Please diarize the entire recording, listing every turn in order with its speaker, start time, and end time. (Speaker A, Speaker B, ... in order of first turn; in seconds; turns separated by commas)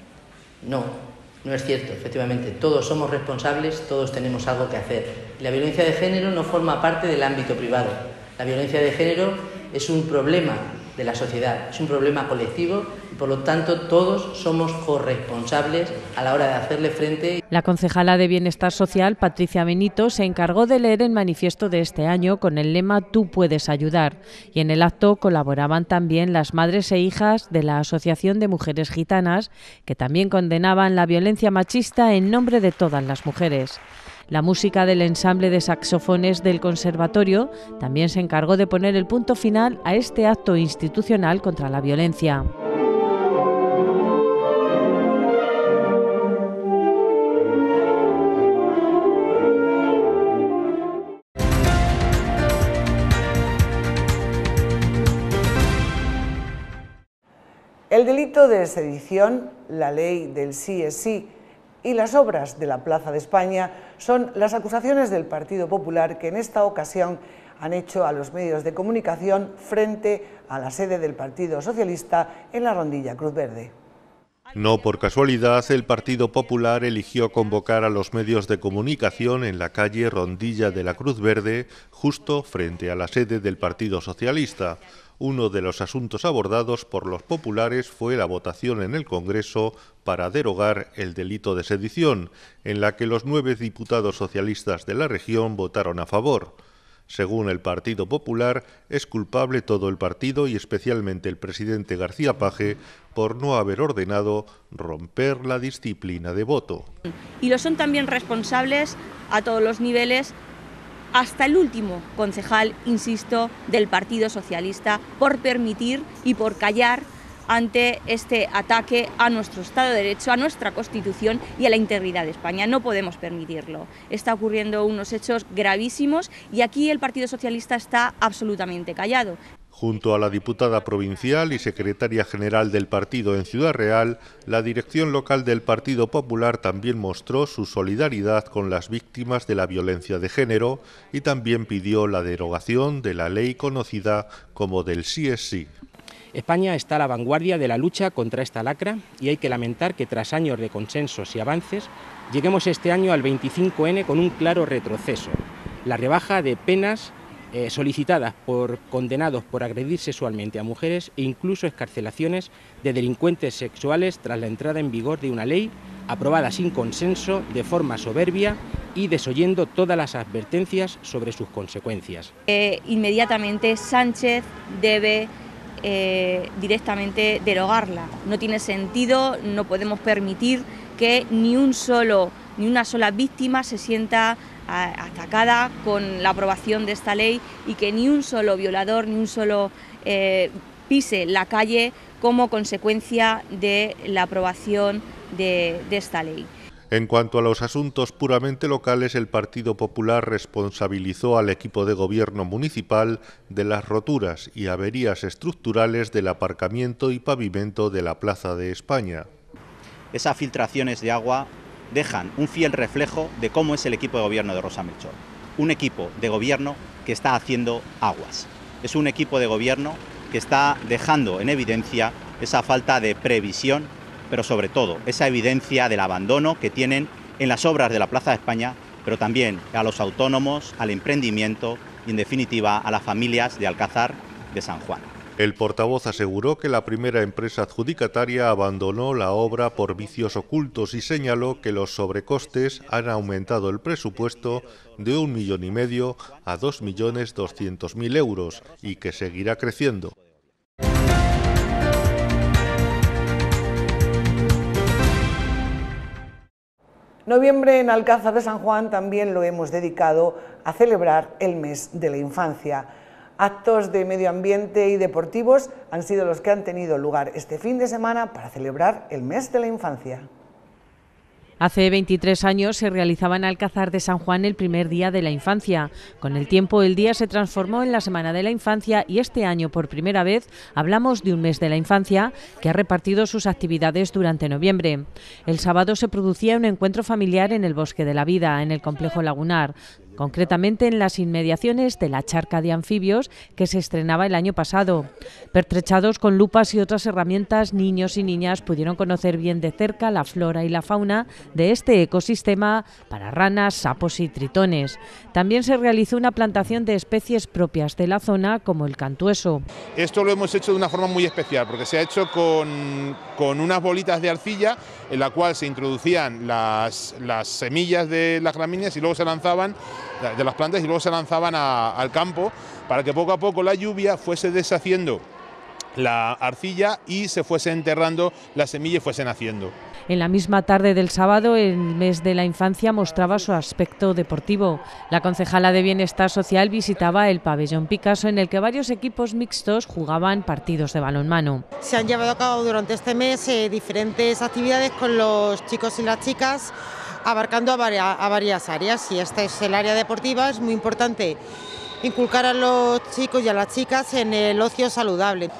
Speaker A: 0.6-17.4, Speaker B: 17.5-42.5, Speaker C: 57.9-73.7, Speaker D: 74.5-96.5, Speaker D: 97.1-106.8, Speaker E: 107.4-110.3, Speaker E: 111.1-129.4, Speaker D: 129.7-145.7, Speaker F: 146.3-172.3, Speaker E: 172.5-196.5, Speaker D: 196.9-209.3, Speaker G: 210.1-235.1, Speaker D: 235.4-250.1, Speaker C: 257.2-270.3, Speaker B: 271.6-309.6, Speaker H: 309.9-325.2, Speaker H: 325.9-329.7, Speaker B: 330.1-341.6, Speaker I: 341.8-351.4, Speaker I: 352.0-355.5